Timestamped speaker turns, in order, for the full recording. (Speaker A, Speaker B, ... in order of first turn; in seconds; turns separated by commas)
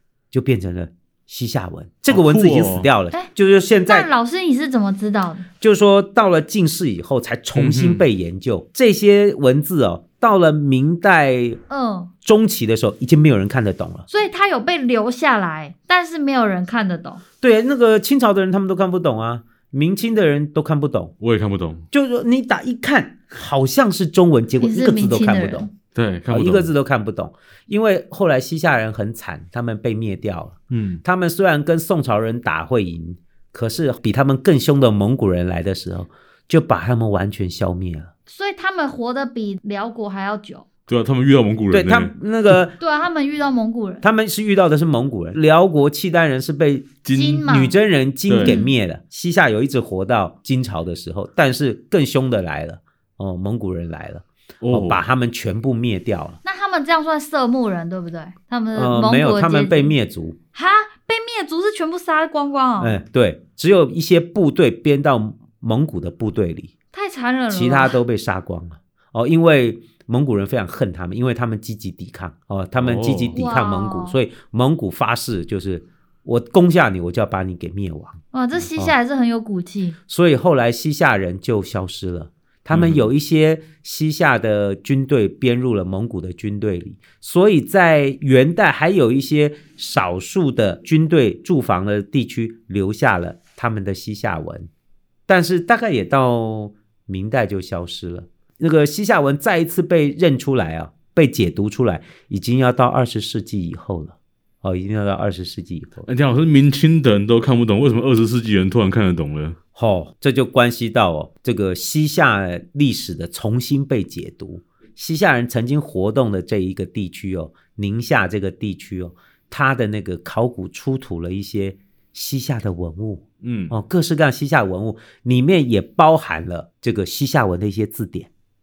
Speaker A: 0.3-4.1, Speaker B: 2.1-2.9, Speaker C: 3.9-5.5, Speaker A: 5.6-11.6, Speaker B: 7.5-8.0, Speaker C: 11.7-12.1, Speaker A: 12.2-14.1, Speaker C: 14.1-17.2, Speaker A: 17.4-21.1, Speaker B: 21.2-21.9, Speaker A: 21.9-25.7, Speaker C: 24.6-25.7, Speaker B: 25.9-26.7, Speaker A: 26.3-38.1, Speaker B: 30.7-31.0, Speaker C: 38.3-40.7, Speaker B: 40.9-42.1, Speaker A: 41.7-42.8, Speaker C: 42.8-44.0, Speaker A: 44.0-56.4, Speaker B: 47.0-47.5, Speaker C: 47.1-47.8, Speaker B: 48.3-48.6, Speaker C: 48.4-48.7, Speaker B: 54.6-55.0, Speaker C: 56.4-59.9, Speaker A: 58.8-60.4, Speaker C: 60.5-63.0, Speaker A: 62.8-66.7, Speaker C: 66.9-68.0, Speaker A: 67.5-78.2, Speaker B: 72.8-73.4, Speaker C: 73.3-74.2, Speaker C: 78.3-80.0, Speaker A: 80.1-94.7, Speaker B: 82.7-83.1, Speaker A: 95.3-106.1, Speaker B: 106.1-109.6, Speaker A: 109.8-128.3, Speaker B: 123.4-123.7